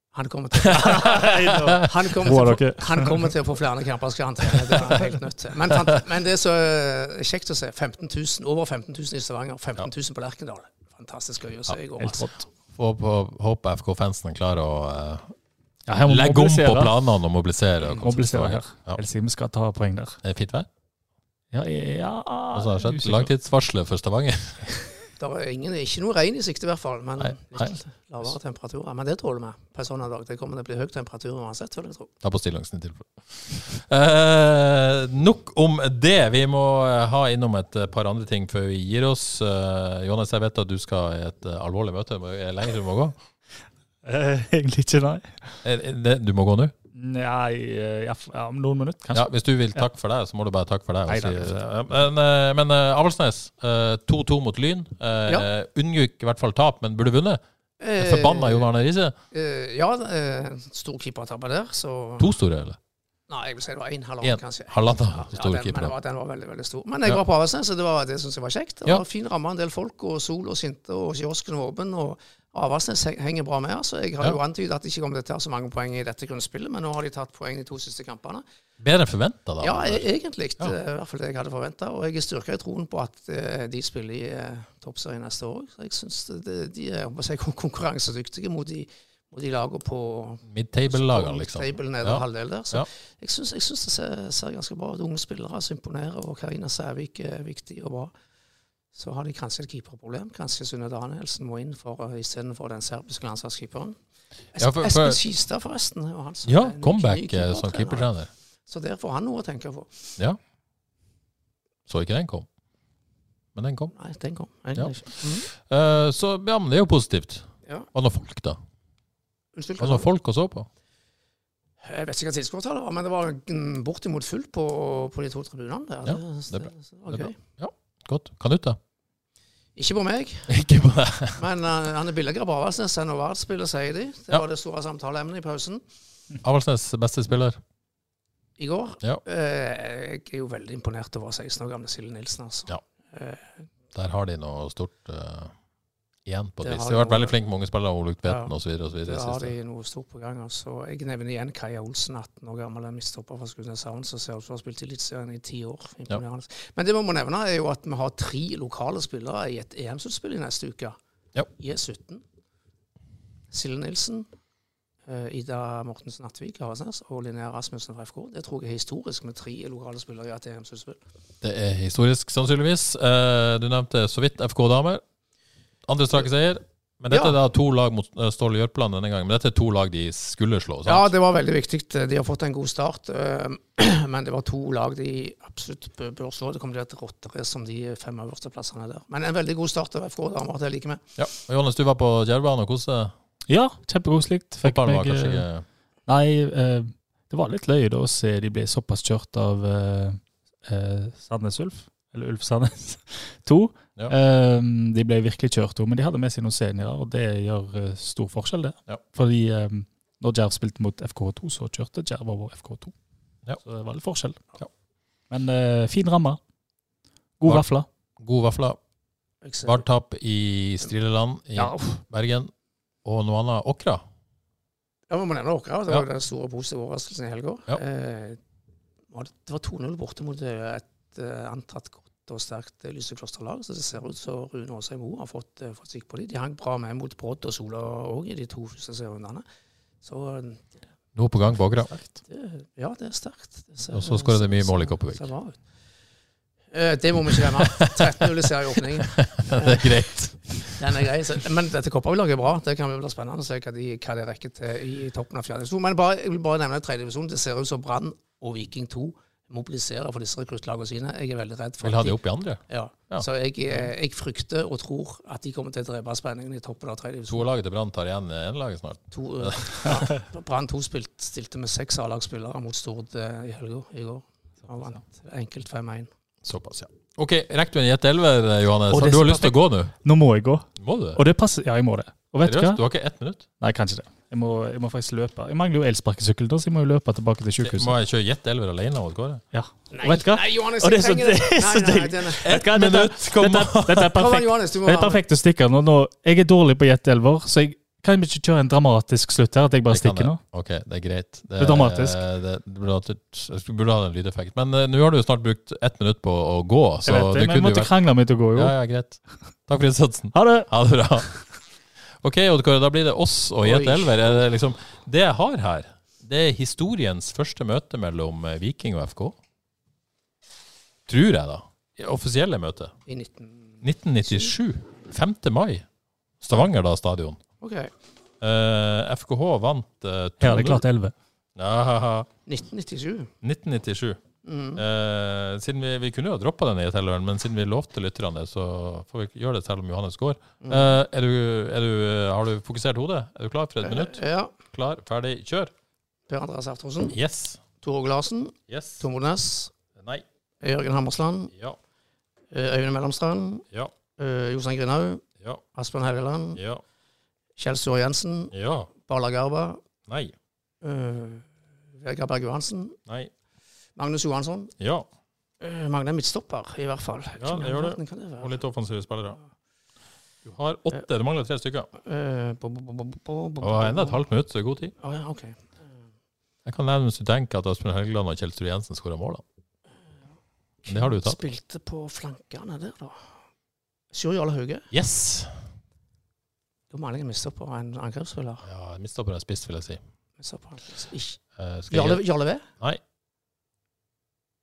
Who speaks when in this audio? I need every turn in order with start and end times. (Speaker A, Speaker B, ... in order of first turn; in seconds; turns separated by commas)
Speaker A: 0.1-12.3, Speaker B: 0.6-1.8, Speaker C: 0.9-3.1, Speaker C: 12.0-12.5, Speaker B: 12.7-15.3, Speaker C: 15.9-16.9, Speaker B: 16.0-19.0, Speaker C: 18.0-20.2, Speaker B: 20.2-20.7, Speaker C: 21.5-23.3, Speaker B: 22.5-24.7, Speaker A: 25.2-32.1, Speaker B: 27.2-27.7, Speaker B: 32.2-43.2, Speaker C: 44.0-45.6, Speaker B: 45.6-46.7, Speaker C: 46.9-49.8, Speaker B: 49.1-57.4, Speaker C: 51.1-51.7, Speaker A: 57.8-58.7, Speaker B: 58.0-59.1, Speaker A: 59.3-62.3, Speaker B: 62.2-62.8, Speaker A: 63.3-78.4, Speaker B: 64.2-65.9, Speaker B: 78.8-80.0, Speaker A: 79.6-98.1, Speaker B: 90.5-92.9, Speaker A: 98.9-104.0, Speaker A: 104.5-108.1, Speaker B: 104.6-105.2, Speaker B: 106.5-108.3, Speaker A: 108.7-110.1, Speaker B: 111.9-112.5, Speaker B: 113.5-113.9, Speaker A: 114.0-115.5, Speaker B: 114.7-118.6, Speaker A: 119.5-120.1, Speaker B: 119.8-120.7, Speaker A: 121.8-127.4, Speaker B: 126.0-128.8, Speaker A: 129.8-130.6, Speaker B: 130.5-131.4, Speaker A: 131.3-135.8, Speaker B: 136.4-137.6, Speaker A: 138.6-143.7, Speaker B: 143.9-145.5, Speaker B: 146.2-149.5, Speaker A: 146.6-147.3, Speaker A: 148.2-148.5, Speaker A: 149.0-161.0, Speaker A: 161.6-162.2, Speaker A: 163.5-164.3, Speaker A: 165.1-171.0, Speaker B: 171.4-175.0, Speaker B: 175.8-181.1, Speaker A: 177.1-177.3, Speaker A: 180.8-191.0, Speaker B: 191.2-193.1, Speaker C: 193.5-195.4, Speaker B: 194.6-195.7, Speaker C: 196.1-212.9, Speaker C: 213.6-214.4, Speaker C: 215.3-216.4, Speaker C: 217.4-217.8, Speaker B: 218.2-218.8, Speaker A: 219.4-219.8, Speaker B: 219.6-222.5, Speaker C: 221.6-222.0, Speaker B: 223.0-224.0, Speaker A: 225.1-228.4, Speaker A: 229.1-239.4, Speaker A: 240.0-240.6, Speaker B: 241.1-241.9, Speaker A: 242.1-245.6, Speaker B: 243.9-245.3, Speaker A: 246.7-267.5, Speaker B: 247.8-248.3, Speaker B: 249.0-251.1, Speaker B: 261.8-263.9, Speaker B: 267.3-270.0, Speaker A: 269.1-276.1, Speaker B: 276.4-279.9, Speaker C: 278.9-282.8, Speaker B: 280.8-281.2, Speaker B: 282.4-283.4, Speaker C: 283.6-287.9, Speaker B: 287.6-289.4, Speaker C: 289.5-300.4, Speaker A: 289.9-292.5, Speaker B: 292.4-294.2, Speaker A: 294.1-295.2, Speaker B: 299.9-311.5, Speaker C: 301.6-302.2, Speaker C: 307.0-308.8, Speaker C: 310.3-310.7, Speaker B: 312.1-319.4, Speaker A: 313.6-314.3, Speaker B: 321.1-322.9, Speaker A: 323.1-324.5, Speaker B: 323.8-325.9, Speaker B: 326.4-327.4, Speaker A: 327.6-327.9, Speaker B: 328.4-330.8, Speaker C: 330.4-331.1, Speaker B: 331.6-332.3, Speaker A: 332.4-333.3, Speaker B: 333.4-334.2, Speaker A: 334.4-334.8, Speaker B: 334.7-345.7, Speaker A: 340.6-341.0, Speaker A: 343.8-344.5, Speaker A: 346.3-347.2, Speaker B: 347.1-347.6, Speaker A: 347.8-349.7, Speaker B: 348.7-349.0, Speaker B: 349.9-350.2, Speaker A: 350.6-351.5, Speaker A: 352.5-353.6, Speaker A: 354.2-356.6, Speaker B: 356.5-356.8, Speaker A: 357.6-359.8, Speaker B: 358.5-358.9, Speaker B: 360.1-360.3, Speaker A: 360.8-363.0, Speaker A: 363.9-364.7, Speaker B: 364.8-365.1, Speaker A: 365.6-368.6, Speaker B: 367.4-369.4, Speaker B: 370.4-371.9, Speaker A: 372.0-374.2, Speaker B: 373.6-374.9, Speaker A: 375.0-375.9, Speaker B: 376.6-379.4, Speaker A: 380.8-383.4, Speaker B: 380.9-381.4, Speaker A: 384.1-384.9, Speaker B: 384.9-385.6, Speaker A: 386.9-388.7, Speaker B: 388.6-390.0, Speaker A: 390.4-392.6, Speaker B: 391.6-392.2